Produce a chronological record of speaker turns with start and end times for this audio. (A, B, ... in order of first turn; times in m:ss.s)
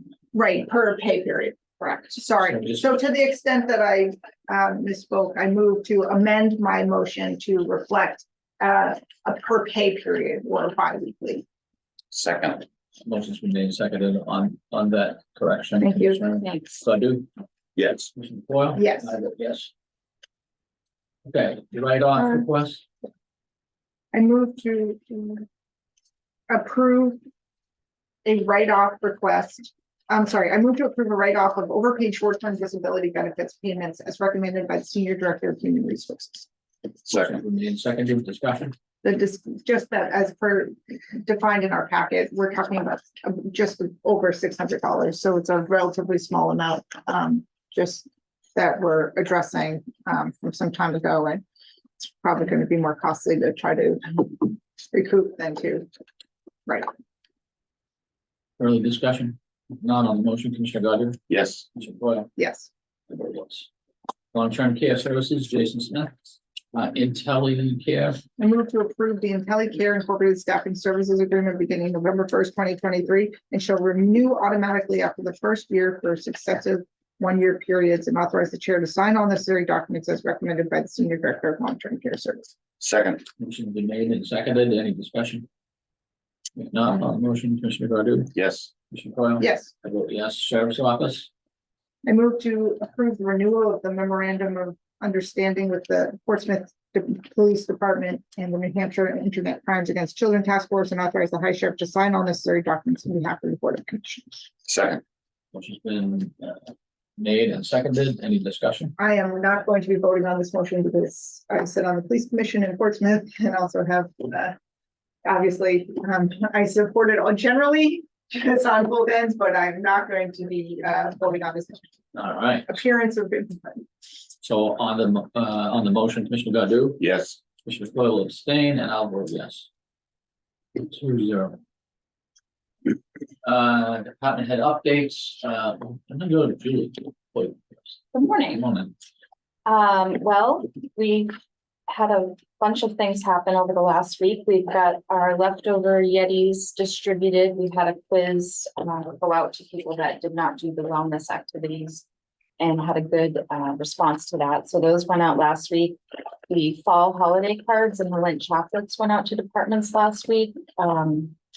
0:00.3-0:11.4 A
0:02.4-0:02.9 B
0:12.1-0:12.6 C
0:13.0-0:17.3 B
0:15.8-0:16.2 A
0:16.4-0:16.8 D
0:17.8-0:18.1 C
0:18.1-0:19.7 B
0:18.8-0:19.1 A
0:21.2-0:22.8 B
0:24.1-0:25.5 A
0:26.5-0:27.2 A
0:28.2-0:36.5 A
0:37.0-0:37.4 C
0:37.1-0:38.7 B
0:39.0-0:51.4 A
0:52.0-0:55.8 A
0:58.6-1:01.2 B
1:01.3-1:01.7 C
1:01.7-1:02.3 B
1:02.4-1:02.7 A
1:03.1-1:03.7 B
1:04.3-1:08.2 B
1:08.4-1:22.5 A
1:22.8-1:23.2 C
1:23.4-1:25.5 B
1:26.6-1:28.3 B
1:28.3-1:28.7 C
1:28.9-1:31.3 B
1:29.4-1:29.7 A
1:32.0-1:44.3 A
1:44.7-1:45.0 C
1:45.5-1:48.9 B
1:49.0-1:54.6 A
1:55.2-2:01.9 A
2:02.1-2:02.7 B
2:02.7-2:03.8 A
2:04.4-2:07.0 B
2:07.0-2:07.4 C
2:07.6-2:09.7 B
2:10.8-2:11.6 B
2:13.4-2:18.9 B
2:18.1-2:18.7 D
2:19.7-2:21.3 D
2:21.9-2:32.1 D
2:32.6-2:41.3 D